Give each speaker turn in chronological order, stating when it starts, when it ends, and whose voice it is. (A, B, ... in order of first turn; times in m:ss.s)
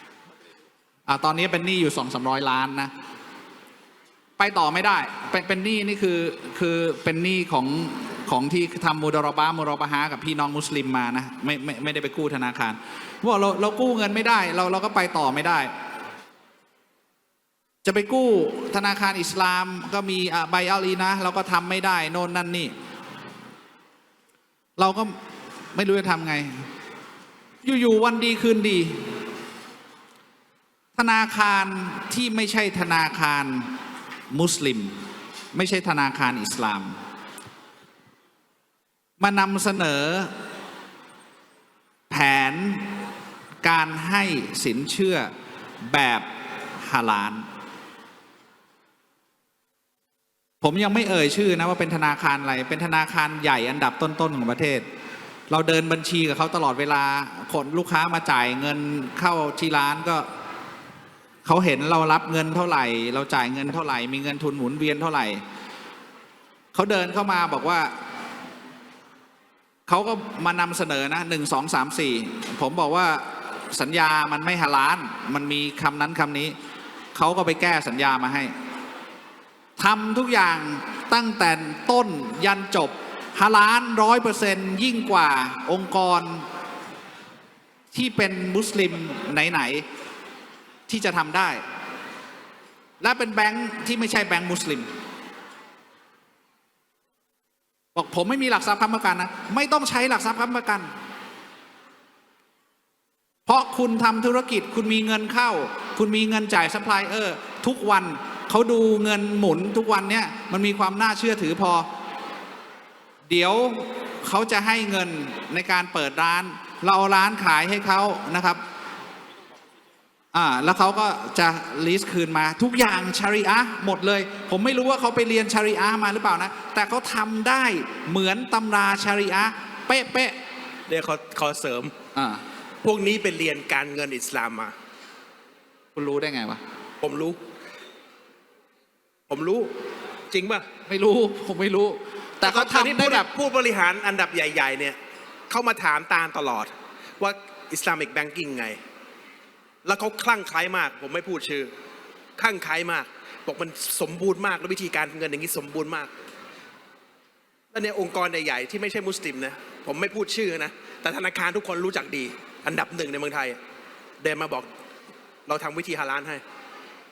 0:01.1-0:02.9 A
0:04.4-0:15.7 A
0:17.8-0:22.7 A
0:24.8-0:25.2 A
0:25.7-0:26.7 A
0:27.6-0:29.2 A
0:31.0-0:33.7 A
0:34.3-0:34.9 A
0:35.5-0:37.0 A
0:39.2-0:40.3 A
0:42.1-0:42.9 A
0:43.6-0:45.3 A
0:45.9-0:46.3 A
0:46.8-0:47.4 A
0:50.6-0:54.8 A
0:55.5-1:00.3 A
1:01.4-1:05.4 A
1:06.7-1:07.9 A
1:09.9-1:16.5 A
1:17.1-1:18.5 A
1:19.8-1:26.4 A
1:27.9-1:29.8 A
1:30.9-1:31.6 A
1:33.0-1:34.9 A
1:37.9-1:40.9 A
1:43.4-1:51.9 A
1:53.3-1:58.6 A
2:00.3-2:10.4 A
2:10.9-2:11.9 B
2:12.1-2:12.4 A
2:12.8-2:14.7 B
2:15.9-2:16.6 A
2:17.0-2:17.4 B
2:19.3-2:19.7 B
2:20.3-2:20.6 B
2:20.8-2:23.3 A
2:22.4-2:25.0 B
2:25.5-2:28.8 B
2:29.8-2:31.7 B
2:32.4-2:36.1 B
2:37.7-2:43.6 B
2:44.2-2:44.7 B
2:45.5-2:46.4 B